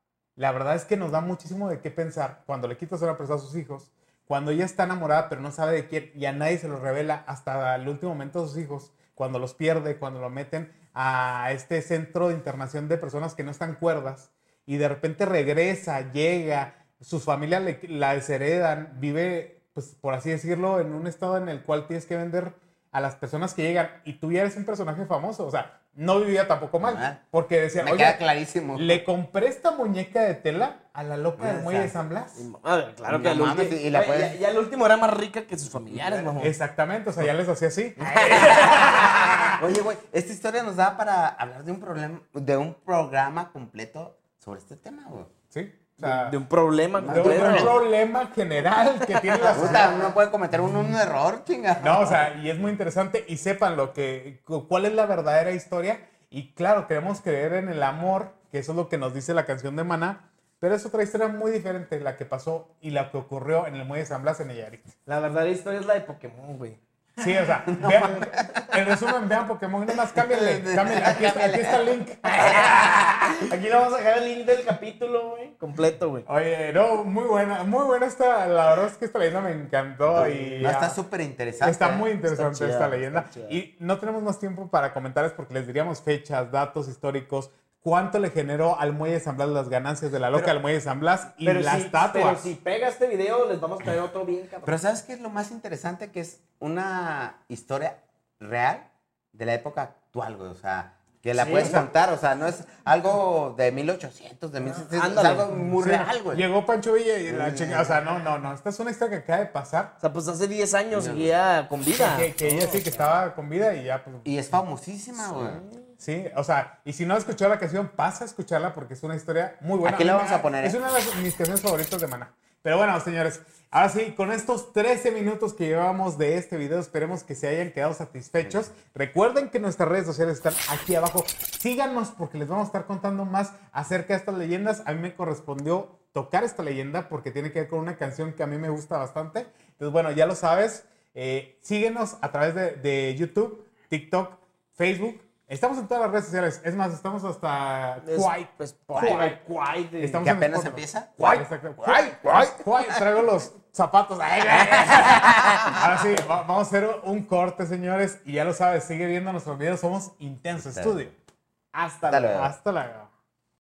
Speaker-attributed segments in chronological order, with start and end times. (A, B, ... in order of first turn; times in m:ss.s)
0:00.4-0:32.4 A
0:26.8-0:27.2 B
0:27.8-0:29.0 B
0:31.4-0:31.9 B
0:32.4-0:36.6 C
0:33.1-0:34.4 B
0:35.9-0:36.4 B
0:36.4-0:39.6 A
0:38.0-0:38.8 C
0:38.0-0:45.3 B
0:45.5-0:46.4 A
0:46.0-0:47.8 C
0:47.0-0:47.8 B
0:47.0-0:50.2 A
0:49.0-0:49.6 C
0:49.5-0:52.3 B
0:51.8-1:05.0 A
1:05.1-1:06.8 C
1:07.2-1:12.6 A
1:07.8-1:08.6 B
1:09.9-1:12.7 B
1:12.2-1:16.3 C
1:16.3-1:21.0 A
1:20.1-1:22.1 B
1:20.1-1:20.7 C
1:21.6-1:32.5 A
1:22.2-1:23.6 C
1:31.3-1:34.8 C
1:34.6-1:46.5 B
1:41.3-1:41.8 C
1:41.5-1:41.9 A
1:44.6-1:45.5 C
1:45.6-1:49.9 A
1:47.3-1:48.0 B
1:50.0-1:53.1 C
1:50.9-1:51.4 B
1:52.0-1:54.3 A
1:54.2-1:55.6 B
1:55.2-1:55.9 C
1:56.0-2:29.4 A
1:59.8-2:00.8 B
2:08.4-2:08.7 B
2:28.0-2:30.2 C
2:29.0-2:29.4 B
2:30.0-2:41.2 A
2:30.2-2:31.1 B
2:31.2-2:32.5 C
2:34.5-2:35.8 C
2:40.7-2:41.0 B
2:41.7-2:42.2 C
2:42.1-2:42.6 B
2:42.2-2:43.1 A